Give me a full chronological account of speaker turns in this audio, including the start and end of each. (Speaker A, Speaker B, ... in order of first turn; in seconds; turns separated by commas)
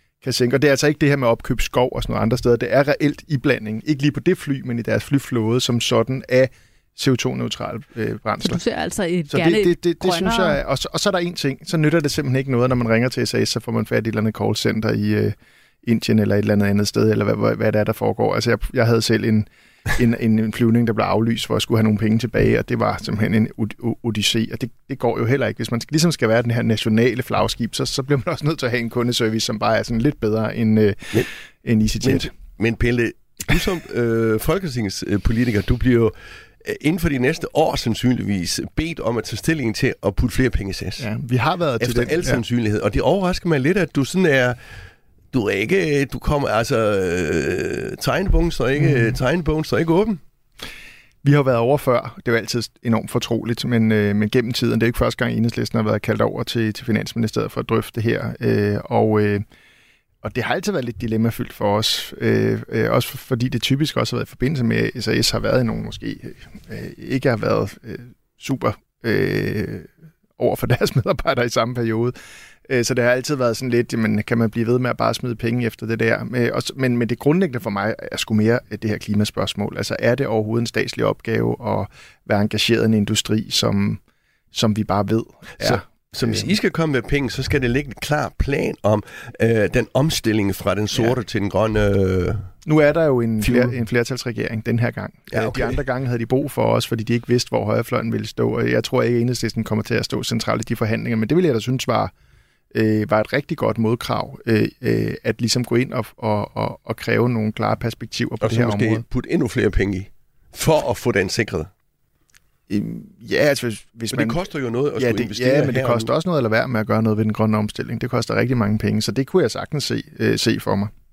Speaker A: 0.2-8.6, Speaker B: 8.4-10.6, Speaker A: 9.3-32.3, Speaker C: 32.0-41.1, Speaker A: 41.0-42.4, Speaker C: 41.8-44.6, Speaker C: 45.3-50.2, Speaker A: 48.8-49.2, Speaker A: 51.2-59.4, Speaker A: 60.2-72.1, Speaker A: 72.7-84.0, Speaker A: 84.5-86.5, Speaker C: 85.6-92.5, Speaker A: 92.7-102.1, Speaker C: 93.4-93.7, Speaker C: 95.3-95.8, Speaker A: 102.7-109.0, Speaker C: 108.4-111.7, Speaker A: 112.7-114.4, Speaker C: 114.1-116.1, Speaker A: 115.0-120.9